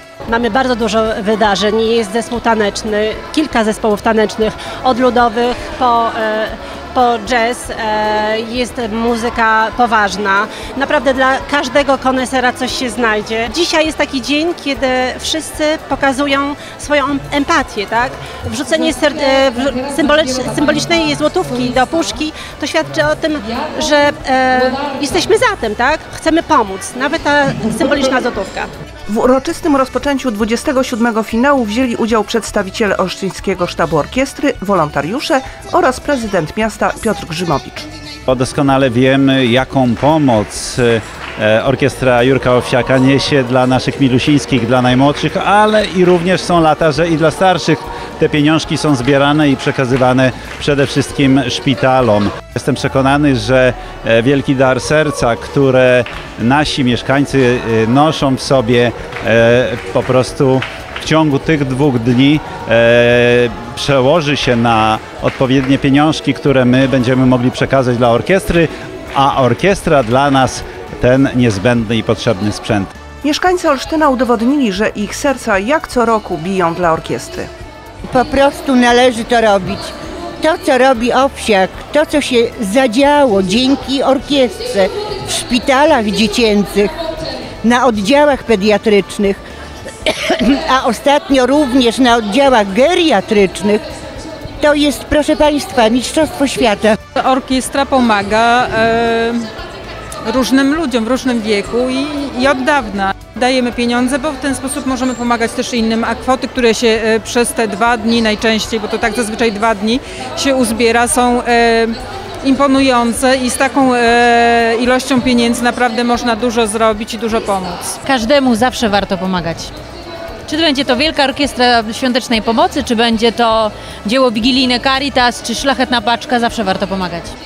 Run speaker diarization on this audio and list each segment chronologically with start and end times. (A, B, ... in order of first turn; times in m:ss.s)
0:00.3-0:28.7 A
0:29.1-0:37.9 B
0:38.3-1:12.9 C
1:13.2-1:17.5 B
1:18.1-1:26.9 D
1:27.6-1:29.4 D
1:30.1-1:33.8 D
1:34.6-1:37.0 D
1:37.2-1:39.5 E
1:40.2-1:58.0 E
1:58.1-1:59.7 F
2:00.5-2:07.3 F